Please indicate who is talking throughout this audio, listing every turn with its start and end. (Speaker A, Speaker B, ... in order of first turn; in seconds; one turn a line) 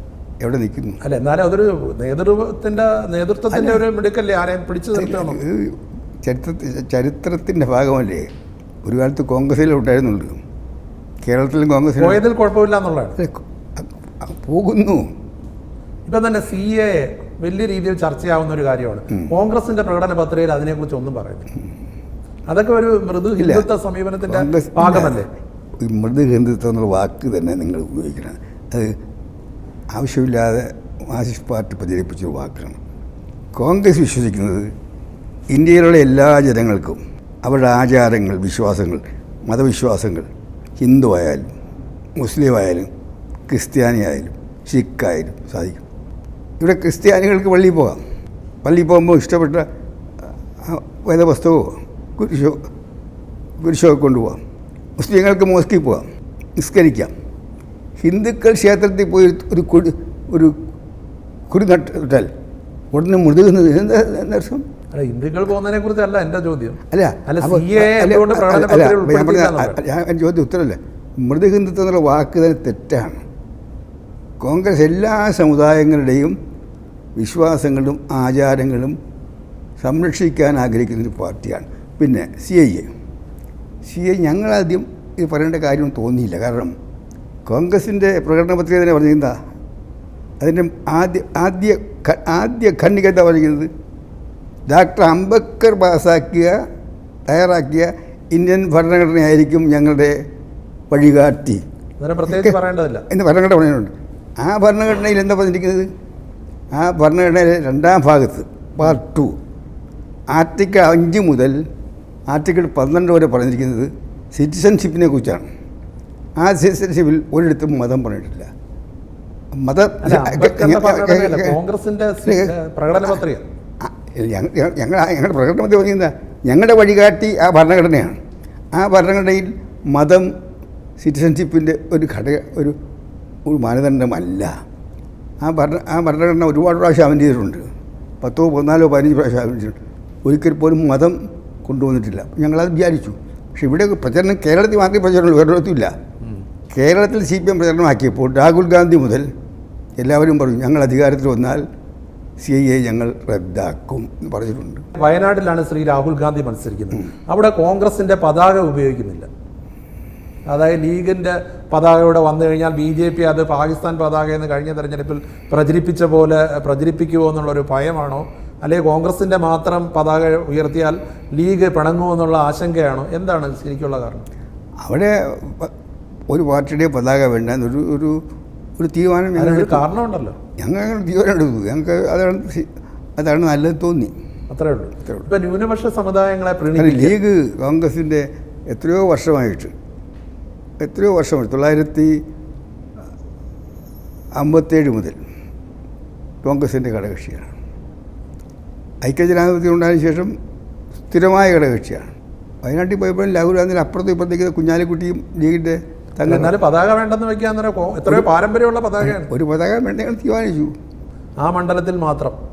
Speaker A: 0.4-1.0
Speaker B: 1.0-5.4
Speaker A: 3.5-3.8
Speaker A: 4.9-8.3
Speaker A: 8.8-10.4
Speaker A: 11.2-12.2
Speaker B: 12.0-13.2
Speaker A: 13.2-15.1
Speaker B: 16.1-21.5
Speaker B: 22.5-25.3
Speaker A: 23.4-23.7
Speaker A: 24.3-25.2
Speaker A: 25.8-29.0
Speaker A: 29.9-32.8
Speaker A: 33.5-34.7
Speaker A: 35.5-40.3
Speaker A: 40.8-41.5
Speaker A: 42.2-42.9
Speaker A: 43.5-45.8
Speaker A: 46.6-48.0
Speaker A: 48.6-49.7
Speaker A: 50.6-52.7
Speaker A: 53.6-54.4
Speaker A: 55.0-56.1
Speaker A: 56.6-57.1
Speaker A: 58.0-60.5
Speaker A: 61.5-62.3
Speaker A: 62.9-64.6
Speaker B: 64.9-69.8
Speaker A: 66.9-73.2
Speaker A: 74.4-76.4
Speaker A: 77.2-79.0
Speaker A: 79.8-82.9
Speaker A: 83.8-86.8
Speaker A: 87.5-89.4
Speaker A: 90.4-93.7
Speaker A: 94.7-96.6
Speaker A: 97.3-100.2
Speaker A: 100.9-101.6
Speaker B: 102.0-103.0
Speaker A: 102.3-102.6
Speaker A: 103.1-105.9
Speaker A: 106.7-109.3
Speaker A: 110.3-111.6
Speaker A: 112.3-115.5
Speaker A: 116.4-118.5
Speaker A: 119.5-121.6
Speaker B: 120.0-123.5
Speaker A: 122.3-122.5
Speaker A: 123.8-128.2
Speaker A: 128.7-130.3
Speaker A: 131.0-132.8
Speaker A: 133.5-134.5
Speaker A: 135.4-137.7
Speaker A: 138.2-145.9
Speaker A: 146.7-149.3
Speaker A: 150.0-151.7
Speaker A: 152.4-154.8
Speaker B: 154.9-159.3
Speaker B: 160.5-174.2
Speaker A: 174.8-175.7
Speaker A: 176.3-178.2
Speaker A: 178.8-179.8
Speaker B: 179.4-180.4
Speaker A: 180.6-184.1
Speaker B: 184.5-187.2
Speaker A: 186.8-189.7
Speaker A: 190.8-192.2
Speaker A: 194.3-195.2
Speaker A: 196.4-197.5
Speaker A: 199.0-200.3
Speaker A: 201.1-206.6
Speaker B: 206.3-209.3
Speaker A: 209.0-210.7
Speaker B: 211.4-212.4